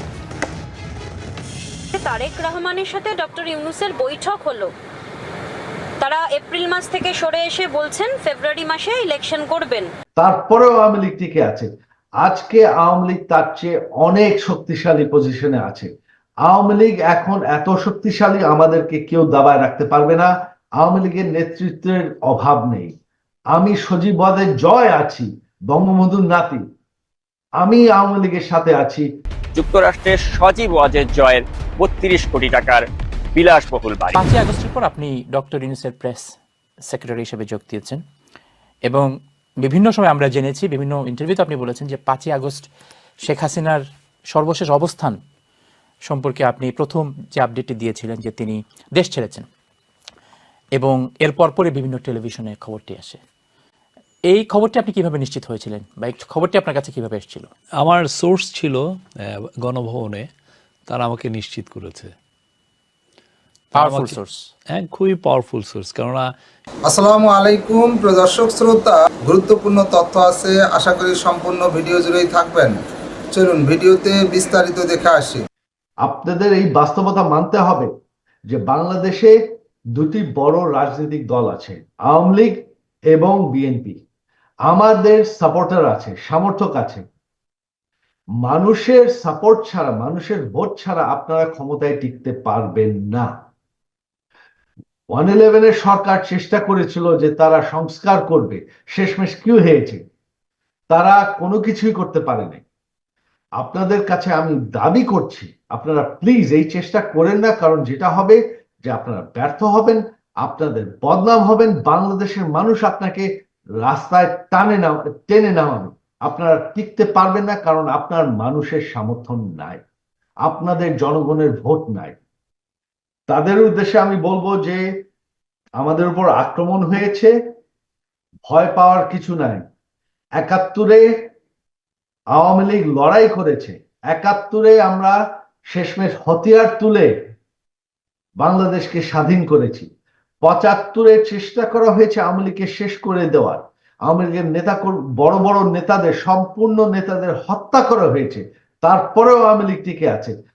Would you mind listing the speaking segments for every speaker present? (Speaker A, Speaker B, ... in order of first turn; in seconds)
Speaker A: 2.0-2.8, 8.6-9.7
Speaker B: 10.2-11.7, 12.2-15.9, 16.4-22.9, 23.5-26.6, 27.6-29.1, 76.0-77.9, 78.5-79.3, 79.9-82.6, 83.1-84.0, 84.7-87.0, 88.4-93.3, 95.1-100.0, 100.9-102.6, 103.6-113.3, 113.8-119.8, 120.4-122.2, 123.3-124.9, 125.8-127.3, 128.5-129.6, 130.4-131.1, 132.3-135.2, 135.7-137.1, 138.4-139.9, 140.4-150.3
Speaker C: 29.5-34.2
Speaker D: 34.1-36.3, 36.9-38.0, 39.6-42.7, 43.2-43.8, 44.3-45.2, 46.0-49.5, 50.8-53.2, 54.3-57.5, 63.7-64.5
Speaker E: 57.8-58.8, 59.6-60.3, 60.9-62.1, 63.7-64.2, 64.7-66.3
Speaker F: 66.9-72.8, 73.3-75.5